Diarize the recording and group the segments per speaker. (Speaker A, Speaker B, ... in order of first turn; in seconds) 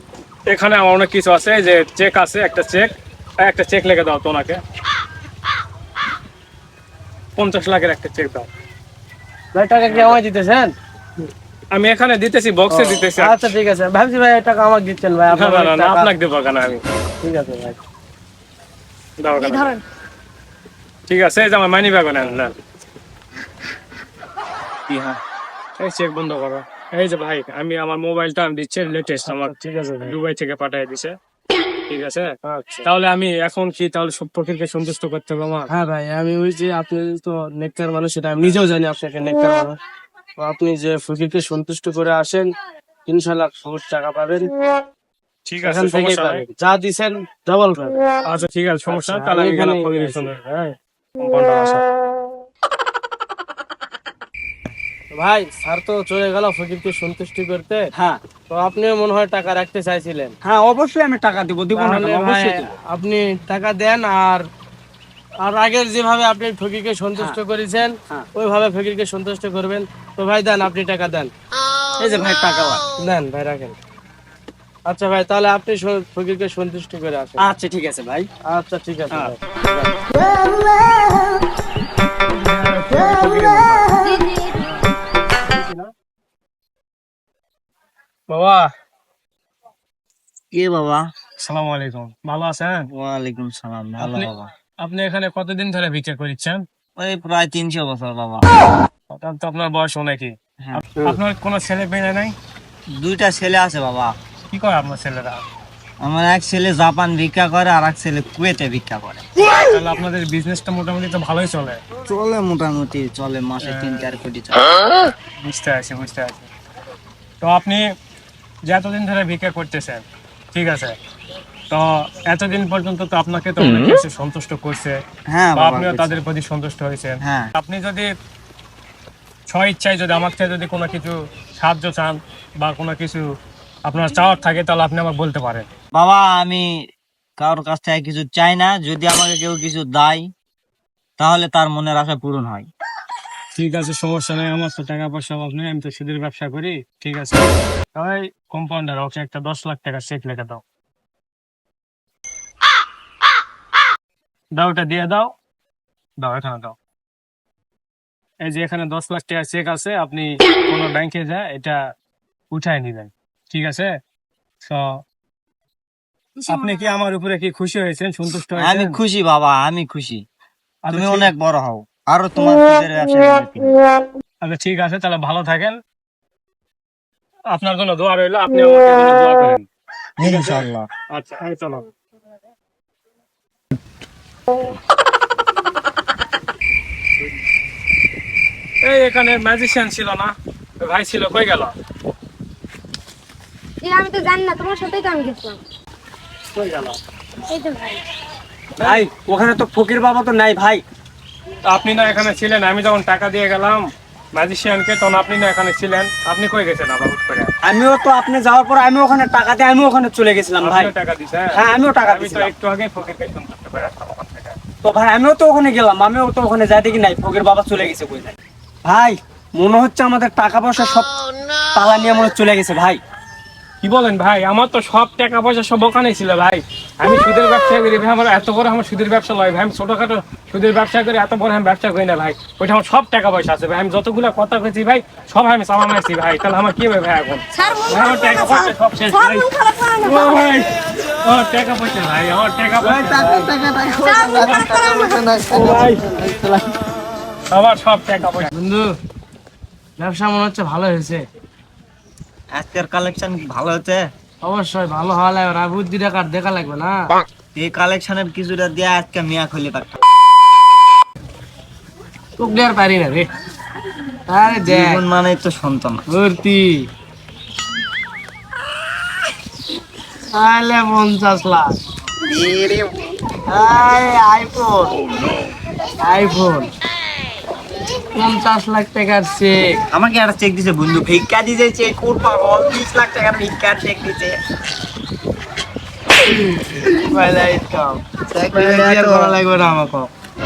Speaker A: 0.5-4.6, 7.3-8.5, 9.9-10.2, 11.7-13.4, 15.4-16.8, 19.2-19.8, 21.1-22.5, 25.8-31.1, 31.9-35.7, 45.5-46.4, 48.2-51.9, 82.3-83.9, 85.5-85.9, 91.4-92.9, 94.0-94.3, 94.8-96.6, 99.1-102.3, 104.5-105.4, 109.7-111.8, 113.6-114.1, 115.4-116.5, 117.4-117.8, 118.7-120.9, 121.7-125.0, 125.5-128.1, 129.5-133.2, 133.8-135.7, 143.6-150.6, 154.6-155.3, 156.2-156.7, 158.4-161.8, 162.5-163.9, 166.5-169.0, 170.9-171.3, 174.4-175.8, 177.5-179.6, 180.2-181.9, 188.8-191.7, 196.5-197.0, 198.8-199.0, 201.7-207.5, 210.6-214.6, 223.8-240.7, 241.2-243.4, 245.5-246.1, 247.5-248.5
Speaker B: 9.5-10.7, 12.7-16.1, 17.2-17.8, 29.2-30.1, 32.4-32.9, 35.7-39.8, 40.4-42.5, 43.1-44.5, 45.6-48.0, 48.9-50.3, 55.1-57.8, 58.5-60.3, 61.7-64.4, 65.4-71.3, 73.0-73.7, 74.9-77.4, 78.5-79.9, 88.3-88.7, 248.5-248.9, 250.0-251.2, 254.4-257.1, 262.4-263.3, 264.3-265.0, 266.1-266.8, 270.3-271.8, 273.5-274.7, 276.0-276.7, 278.1-279.6, 286.7-290.1
Speaker C: 60.4-62.7, 72.0-72.8, 77.4-78.3, 198.8-200.8, 207.6-210.9, 211.5-212.5, 214.8-221.1, 221.7-223.0
Speaker D: 84.0-84.7, 193.8-195.6, 197.5-198.0, 237.6-238.1, 239.2-240.2, 244.4-244.9
Speaker E: 90.5-91.0, 92.9-94.5, 97.0-98.4, 103.0-104.1, 106.0-109.2, 112.0-114.7, 125.3-126.2, 127.2-127.5, 135.9-136.7, 137.4-140.3, 141.2-142.7, 166.3-166.9, 168.6-170.2, 170.9-173.8, 180.2-180.9, 242.8-246.7, 252.5-254.0, 257.5-259.9, 264.4-266.0, 272.2-272.9, 279.9-284.3, 288.3-289.4